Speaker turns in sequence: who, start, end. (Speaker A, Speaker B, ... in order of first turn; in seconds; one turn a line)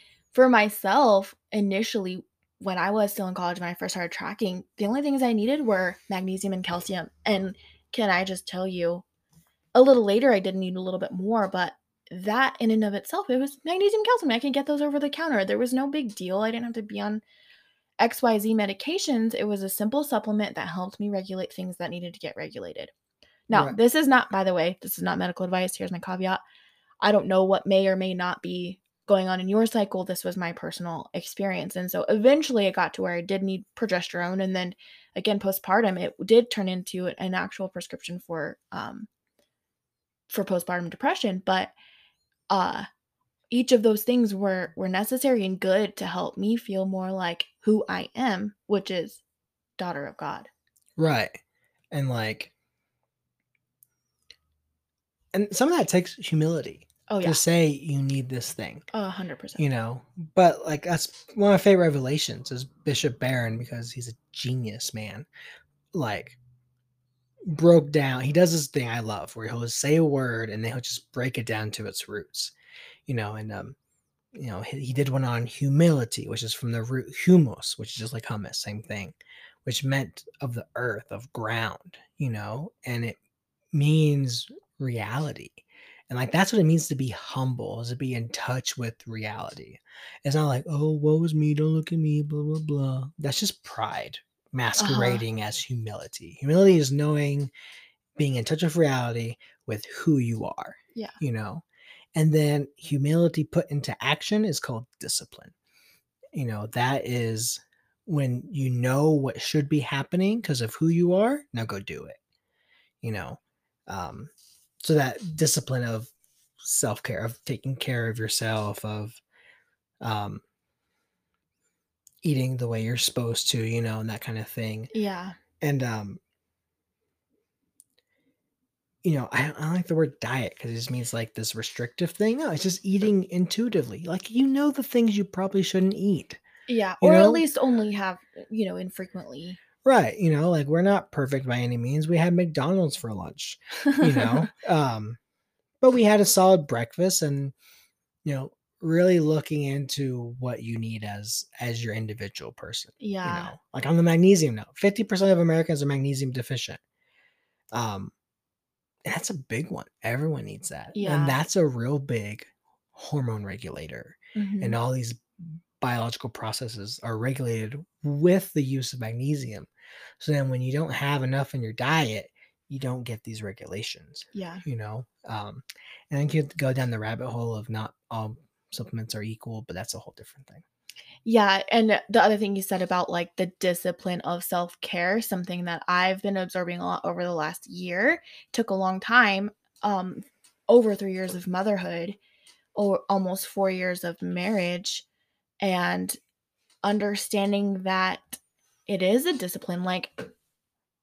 Speaker A: 0.3-9.0
Speaker A: 9.7-17.2
Speaker A: 18.0-22.9
Speaker A: 23.5-26.4
Speaker A: 27.0-39.1
Speaker A: 40.3-41.7
Speaker A: 42.5-42.9
Speaker A: 43.5-49.2
Speaker A: 49.8-50.5
Speaker B: 51.0-51.4
Speaker B: 51.9-52.5
Speaker B: 55.3-58.8
Speaker A: 57.1-57.4
Speaker A: 58.9-59.6
Speaker B: 59.6-65.3
Speaker B: 65.9-66.4
Speaker B: 67.5-72.5
Speaker B: 73.1-73.8
Speaker B: 74.3-83.2
Speaker B: 83.7-97.5
Speaker A: 94.8-95.2
Speaker B: 98.2-101.6
Speaker B: 102.1-105.5
Speaker B: 106.3-112.2
Speaker B: 113.0-114.3
Speaker B: 114.8-116.1
Speaker B: 116.6-119.2
Speaker B: 120.0-120.4
Speaker B: 122.2-124.9
Speaker A: 124.9-125.3
Speaker B: 125.6-126.2
Speaker B: 129.0-136.4
Speaker A: 136.7-139.6
Speaker B: 137.0-137.4
Speaker B: 139.8-145.2
Speaker A: 143.9-144.4
Speaker B: 145.8-147.5
Speaker B: 148.2-156.8
Speaker A: 153.0-153.5
Speaker B: 157.7-158.1
Speaker B: 159.0-180.6
Speaker A: 160.9-161.4
Speaker A: 164.3-164.8
Speaker A: 174.3-174.6
Speaker A: 181.2-192.2
Speaker A: 192.7-195.0
Speaker A: 195.6-196.2
Speaker A: 196.8-200.3